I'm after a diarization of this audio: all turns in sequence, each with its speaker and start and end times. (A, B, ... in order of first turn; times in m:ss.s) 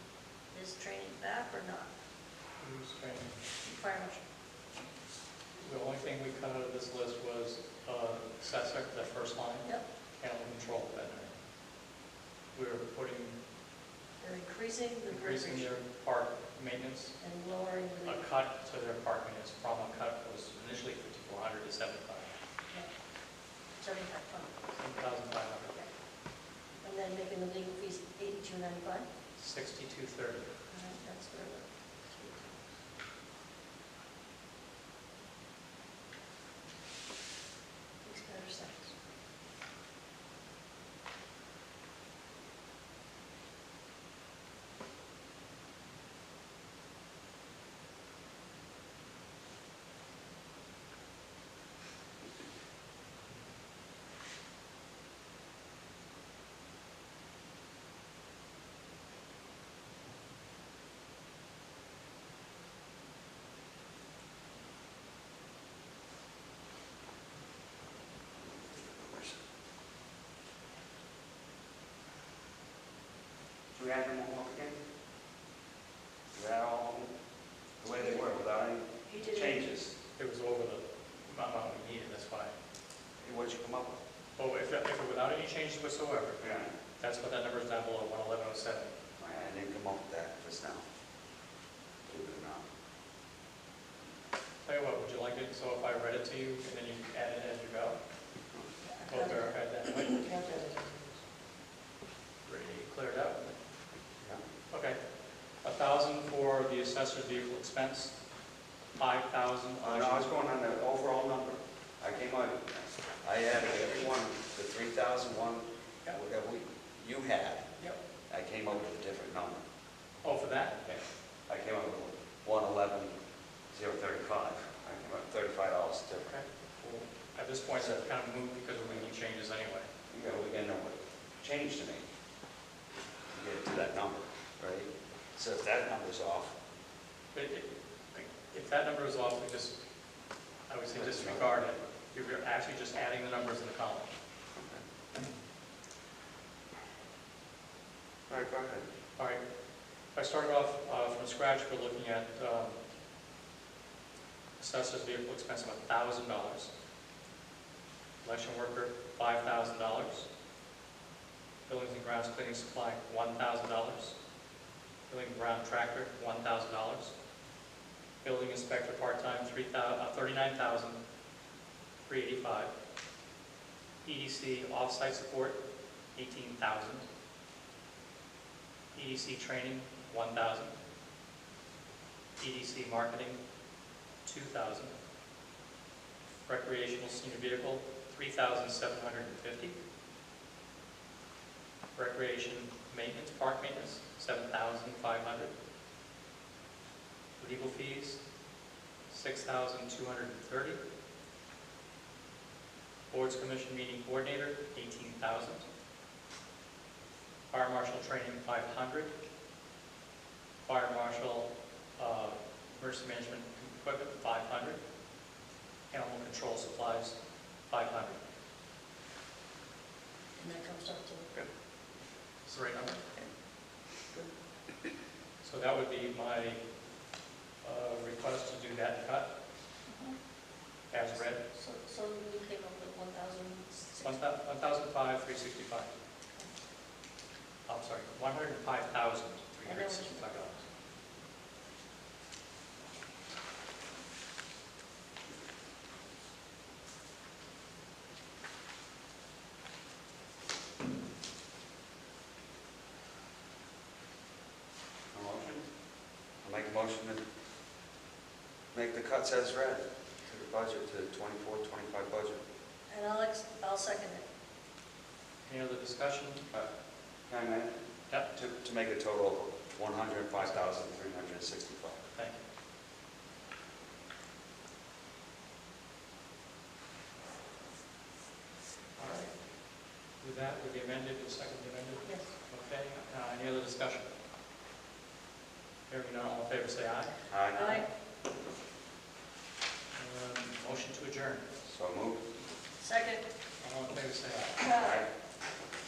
0:00.5-0:01.9 A
0:02.6-0:03.4 B
0:03.6-0:04.2 A
0:05.6-0:11.4 B
0:12.5-0:13.4 B
0:14.2-0:15.8 A
0:15.1-0:17.2 B
0:17.2-0:18.3 A
0:18.0-0:22.3 B
0:23.8-0:24.6 A
0:24.8-0:25.8 B
0:26.8-0:29.0 A
0:29.4-0:30.5 B
0:30.7-0:32.6 A
0:38.0-0:38.9 A
1:08.4-1:09.4 C
1:13.7-1:14.8 C
1:16.3-1:17.1 C
1:17.8-1:19.9 C
1:19.1-1:19.5 A
1:20.1-1:22.5 B
1:23.2-1:24.0 C
1:24.4-1:26.4 B
1:26.4-1:26.7 C
1:27.0-1:28.9 B
1:29.2-1:30.8 C
1:32.0-1:32.6 C
1:34.6-1:38.0 B
1:38.9-1:40.9 A
1:39.0-1:40.2 B
1:42.4-1:43.5 B
1:44.7-1:45.0 B
1:45.6-1:48.1 B
1:49.0-1:50.3 B
1:49.8-1:57.7 C
1:58.3-1:59.6 C
2:00.2-2:00.8 B
2:00.8-2:03.2 C
2:03.7-2:06.3 C
2:06.2-2:09.9 B
2:10.1-2:12.0 C
2:13.3-2:16.5 C
2:17.3-2:19.8 B
2:20.7-2:24.1 B
2:20.9-2:21.7 C
2:24.6-2:24.8 C
2:28.3-2:28.8 C
2:29.2-2:29.4 B
2:30.1-2:32.8 B
2:34.6-2:36.7 B
2:38.2-2:40.3 B
2:41.7-2:44.1 B
2:45.1-2:47.1 B
2:48.2-2:51.0 B
2:52.1-2:52.7 B
2:54.0-2:55.6 B
2:56.1-2:57.0 B
2:58.9-3:00.8 B
3:02.4-3:03.4 B
3:04.2-3:04.9 B
3:06.4-3:09.8 B
3:11.9-3:15.5 B
3:17.4-3:18.2 B
3:19.1-3:20.8 B
3:23.1-3:25.6 B
3:27.5-3:29.1 B
3:30.6-3:34.8 B
3:35.9-3:37.2 B
3:37.7-3:38.2 B
3:40.4-3:41.3 A
3:42.4-3:43.2 B
3:45.4-3:46.6 B
3:47.6-3:49.3 B
3:49.9-3:50.2 A
3:50.9-3:51.4 B
3:51.4-3:54.2 A
3:54.0-3:55.9 B
3:57.6-4:00.6 B
3:59.6-4:00.3 A
4:15.1-4:15.7 C
4:16.4-4:17.2 C
4:18.7-4:22.4 C
4:22.9-4:24.2 A
4:25.4-4:26.4 B
4:27.3-4:27.7 C
4:28.3-4:32.0 C
4:30.4-4:30.8 B
4:32.1-4:32.4 B
4:39.0-4:39.3 B
4:40.2-4:44.1 B
4:42.0-4:42.3 A
4:45.9-4:47.8 B
4:47.3-4:47.7 C
4:47.5-4:47.8 A
4:49.9-4:51.4 B
4:51.6-4:52.2 C
4:52.8-4:53.2 A
4:53.6-4:54.7 B
4:54.6-4:55.0 A
4:54.6-4:55.1 C